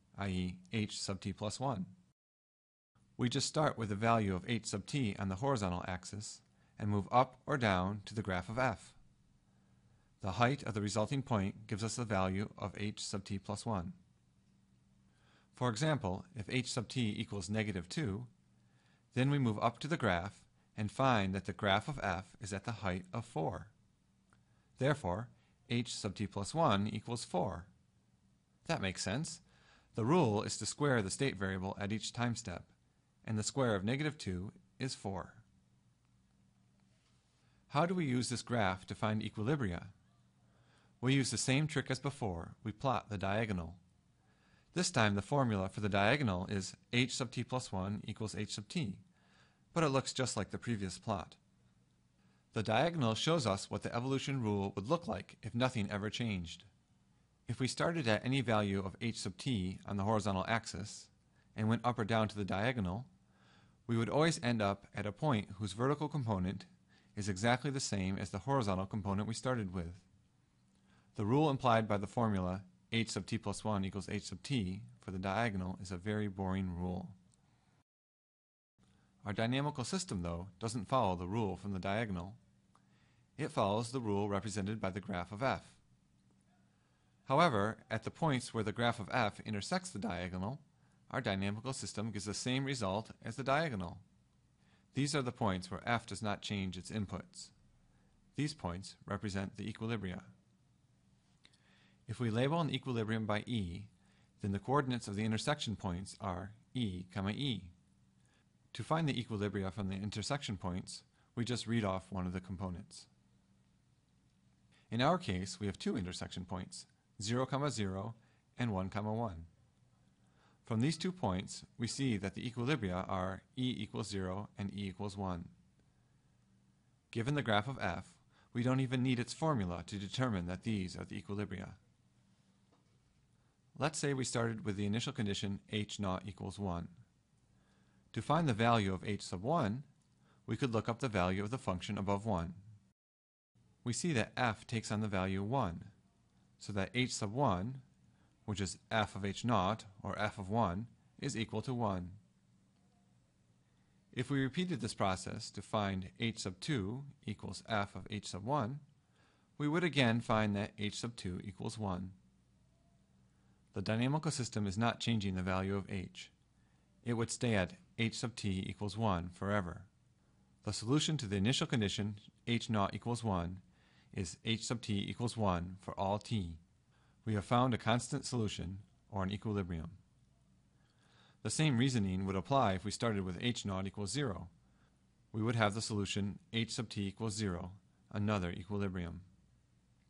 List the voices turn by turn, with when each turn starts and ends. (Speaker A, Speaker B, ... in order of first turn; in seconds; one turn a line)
Speaker A: 0.1-1.9
Speaker A: 3.2-9.0
Speaker A: 10.2-14.0
Speaker A: 15.5-18.3
Speaker A: 19.1-23.7
Speaker A: 24.8-27.7
Speaker A: 28.6-29.4
Speaker A: 29.9-32.7
Speaker A: 33.2-35.4
Speaker A: 37.7-39.9
Speaker A: 41.0-43.8
Speaker A: 44.7-49.0
Speaker A: 49.7-51.4
Speaker A: 52.5-56.7
Speaker A: 57.5-63.1
Speaker A: 63.9-70.0
Speaker A: 71.1-77.2
Speaker A: 79.2-82.4
Speaker A: 83.4-85.8
Speaker A: 87.2-94.0
Speaker A: 94.9-97.5
Speaker A: 98.3-100.3
Speaker A: 102.1-107.7
Speaker A: 108.7-113.1
Speaker A: 114.9-119.5
Speaker A: 120.6-125.5
Speaker A: 127.1-131.8
Speaker A: 133.8-137.0
Speaker A: 138.1-139.9
Speaker A: 140.4-142.6
Speaker A: 143.8-145.9
Speaker A: 146.6-147.8
Speaker A: 148.4-152.2
Speaker A: 154.1-158.8
Speaker A: 159.6-162.2
Speaker A: 163.7-166.3
Speaker A: 167.0-169.9
Speaker A: 170.6-176.6
Speaker A: 177.2-180.0
Speaker A: 181.4-184.5
Speaker A: 185.3-189.2